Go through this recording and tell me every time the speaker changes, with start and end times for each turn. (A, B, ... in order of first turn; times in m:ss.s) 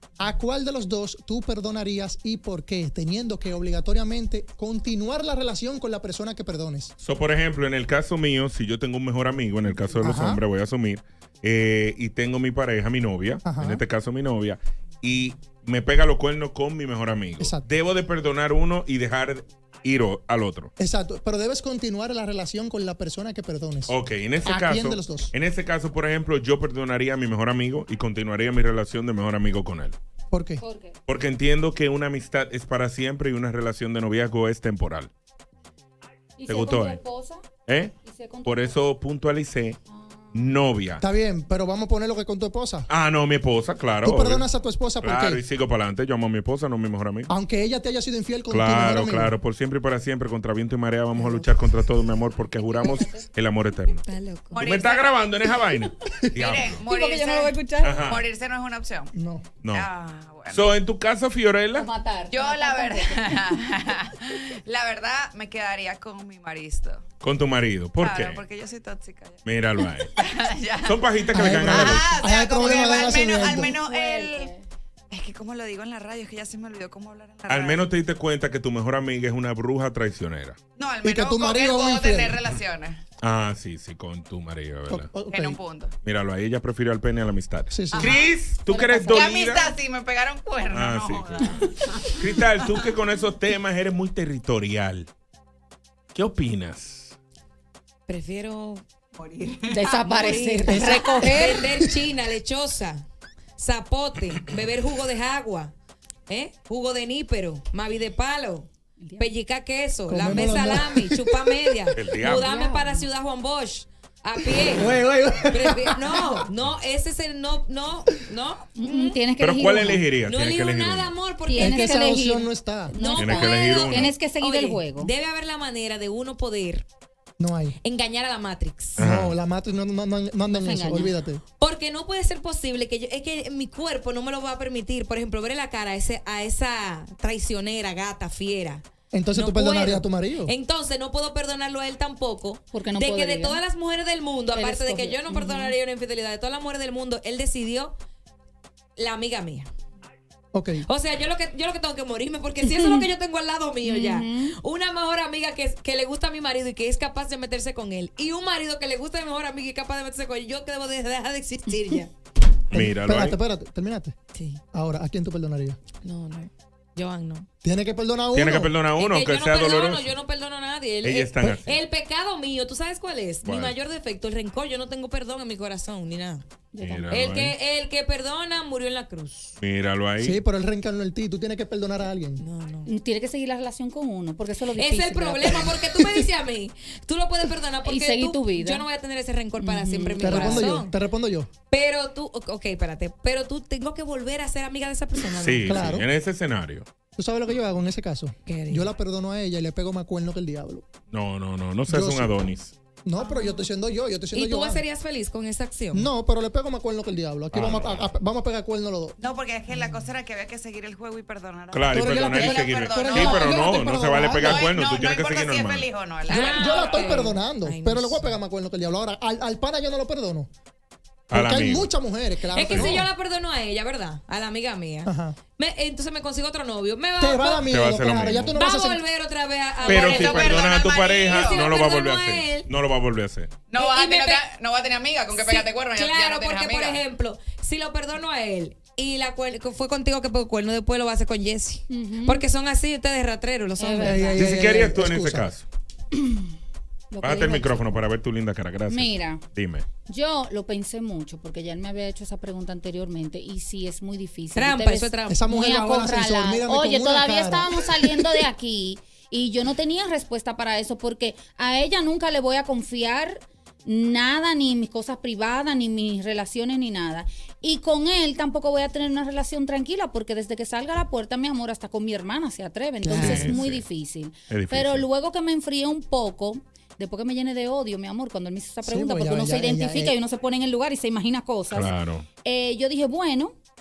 0:00.2-0:06.9 A
0:07.0-0:20.7 B
0:09.9-0:10.4 A
0:13.4-0:13.8 A
0:17.4-0:17.6 A
0:20.8-0:23.9 A
0:23.9-0:30.0 B
0:24.4-0:25.3 A
0:30.3-0:30.6 A
0:30.6-0:31.0 C
0:31.1-0:35.1 B
0:36.4-0:37.4 C
0:36.5-0:37.0 B
0:37.7-0:39.8 B
0:38.0-0:38.8 C
0:39.9-0:40.5 C
0:40.3-0:41.0 B
0:41.0-0:42.9 A
0:42.9-0:44.5 B
0:44.0-0:45.4 A
0:45.0-0:47.3 B
0:47.3-0:49.3 A
0:48.5-0:54.0 B
0:52.7-0:53.2 C
0:54.0-0:54.6 D
0:54.5-0:56.8 B
0:54.6-0:55.3 E
0:56.4-0:59.1 E
0:56.9-0:58.0 C
0:57.8-0:58.3 B
0:59.1-0:59.5 A
0:59.6-0:59.9 B
0:59.7-1:00.8 E
1:00.5-1:01.9 B
1:01.8-1:03.5 C
1:02.3-1:07.0 E
1:07.2-1:08.4 B
1:08.0-1:11.2 E
1:09.4-1:10.1 B
1:10.8-1:12.2 B
1:11.3-1:13.8 A
1:12.0-1:14.5 E
1:13.6-1:14.6 C
1:15.1-1:17.9 E
1:17.5-1:20.6 B
1:20.8-1:23.0 E
1:21.0-1:22.4 A
1:23.2-1:25.1 B
1:24.9-1:25.6 A
1:25.2-1:25.9 E
1:26.0-1:29.8 B
1:27.7-1:28.2 A
1:28.0-1:28.2 E
1:28.7-1:29.3 C
1:29.1-1:32.9 E
1:30.7-1:31.6 B
1:32.2-1:35.1 B
1:36.1-1:37.2 B
1:38.1-1:38.8 D
1:39.2-1:39.7 E
1:39.7-1:41.6 C
1:39.8-1:43.0 D
1:40.7-1:41.8 A
1:43.6-1:45.7 D
1:46.3-1:54.9 D
1:49.0-1:49.3 C
1:50.1-1:51.6 A
1:52.0-1:52.4 B
1:52.3-1:53.0 C
1:54.7-1:56.4 A
1:55.5-1:59.2 D
1:58.8-2:00.0 C
1:59.4-2:01.1 B
2:00.2-2:02.2 D
2:01.5-2:05.1 C
2:01.6-2:02.9 A
2:03.0-2:06.8 D
2:03.2-2:04.1 B
2:07.4-2:07.8 A
2:07.8-2:09.0 D
2:09.0-2:11.4 A
2:09.0-2:09.4 B
2:10.5-2:11.1 C
2:11.6-2:27.9 D
2:19.1-2:20.5 A
2:22.7-2:23.6 C
2:24.5-2:25.7 C
2:29.0-2:29.7 D
2:30.5-2:30.9 A
2:30.8-2:42.1 D
2:32.7-2:33.0 C
2:33.8-2:34.5 C
2:42.7-2:44.1 A
2:42.7-2:43.4 B
2:44.3-2:44.6 D
2:44.7-2:45.8 A
2:46.0-2:47.5 D
2:47.6-2:48.7 A
2:48.3-2:50.1 B
2:49.0-2:56.4 D
2:51.0-2:51.8 B
2:53.4-2:53.8 B
2:56.7-2:57.3 C
2:56.8-2:57.5 B
2:57.1-2:59.5 D
2:59.6-3:00.4 B
3:00.2-3:02.4 A
3:02.4-3:02.9 D
3:02.8-3:05.8 C
3:04.8-3:10.9 D
3:07.8-3:08.9 C
3:09.6-3:10.7 C
3:10.2-3:11.5 A
3:11.7-3:16.0 D
3:15.4-3:16.9 B
3:15.7-3:16.1 A
3:17.2-3:20.8 A
3:18.5-3:18.9 D
3:21.1-3:22.7 B
3:21.9-3:22.3 A
3:23.0-3:24.8 A
3:24.3-3:26.1 D
3:25.9-3:29.2 A
3:27.5-3:28.1 B
3:29.2-3:33.8 E
3:29.7-3:30.0 D
3:31.7-3:35.9 B
3:31.9-3:34.7 A
3:34.4-3:36.9 E
3:36.2-3:38.3 D
3:36.3-3:40.5 A
3:41.3-3:43.1 A
3:41.3-3:41.9 B
3:42.5-3:47.6 D
3:42.7-3:43.1 B
3:45.0-3:45.4 A
3:47.2-3:49.0 A
3:47.7-3:48.6 B
3:48.5-3:50.8 D
3:49.8-3:53.5 B
3:49.8-3:51.7 E
3:51.3-3:52.7 D
3:53.7-3:57.0 E
3:53.7-3:54.4 D
3:55.3-4:04.3 D
4:01.9-4:02.4 C
4:03.8-4:04.4 C
4:04.0-4:05.5 A
4:04.4-4:05.6 B
4:06.2-4:06.4 C
4:07.1-4:08.0 C
4:07.2-4:09.8 B
4:08.9-4:09.4 C
4:10.1-4:43.6 C
4:14.5-4:15.4 D
4:15.3-4:18.3 A
4:33.0-4:33.6 A
4:33.1-4:33.5 D
4:33.2-4:33.8 B
4:34.5-4:35.0 B
4:38.8-4:40.2 A
4:41.7-4:42.2 B